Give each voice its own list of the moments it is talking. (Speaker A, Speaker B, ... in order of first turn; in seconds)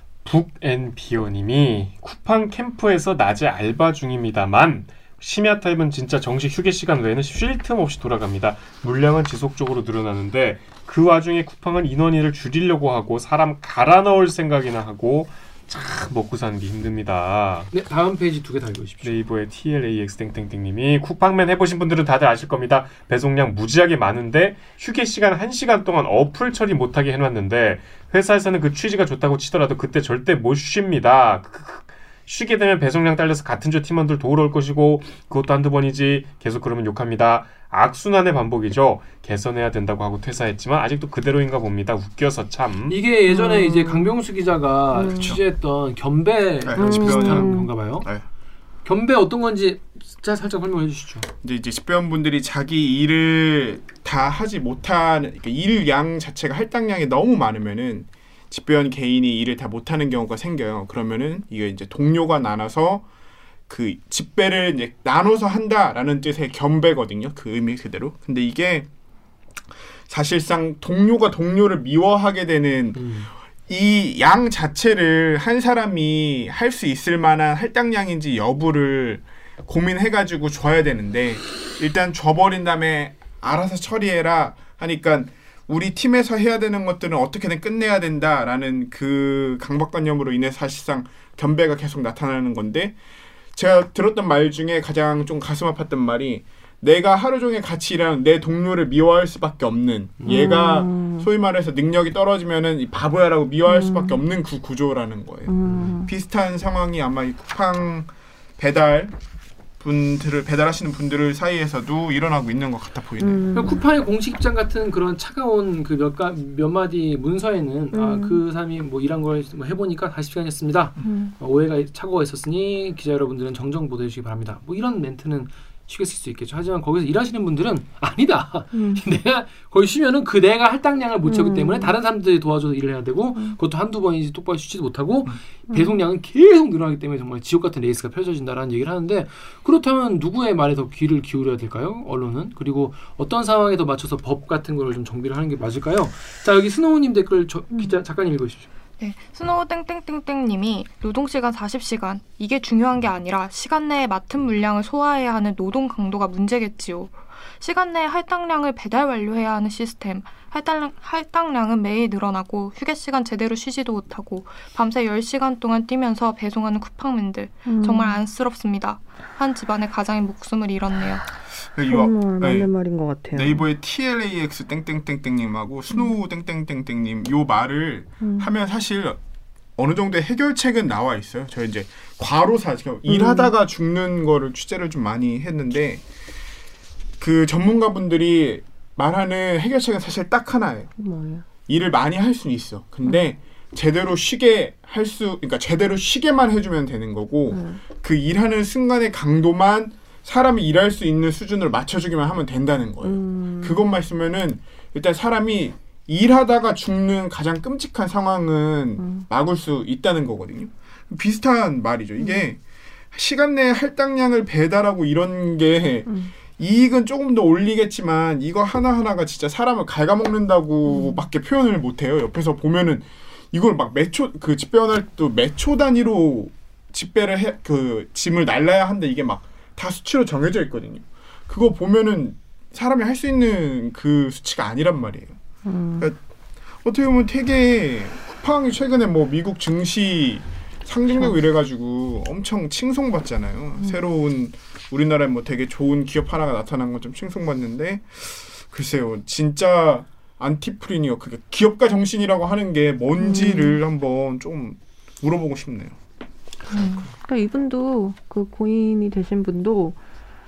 Speaker A: 0.2-17.7, 19.0-43.0
Speaker B: 17.7-19.2, 42.9-48.1, 48.8-51.3, 72.9-73.3, 100.2-100.5, 105.6-105.9, 113.5-148.7
Speaker C: 43.3-44.1, 44.9-45.4, 46.8-47.7, 100.2-101.3, 103.6-104.2, 105.5-106.1, 113.2-113.8, 117.9-118.4, 121.0-121.3, 128.7-129.0, 131.2-132.0, 135.7-136.0, 167.7-168.2, 171.8-173.6, 178.2-178.5, 183.1-183.5, 191.0-191.4, 197.5-197.8, 203.0-203.8, 209.0-209.2, 212.2-212.5, 216.1-216.3, 220.8-221.2, 235.6-236.1, 253.2-253.8, 256.7-260.0
Speaker D: 45.1-45.4, 46.6-48.2, 51.4-63.0, 63.7-68.9, 70.1-73.1, 73.7-93.0, 93.5-109.1, 109.8-113.5, 171.7-172.7, 173.3-179.2, 179.8-186.0, 187.2-190.9, 191.7-212.6, 213.1-235.3, 236.8-256.0
Speaker E: 149.0-171.3, 256.7-257.0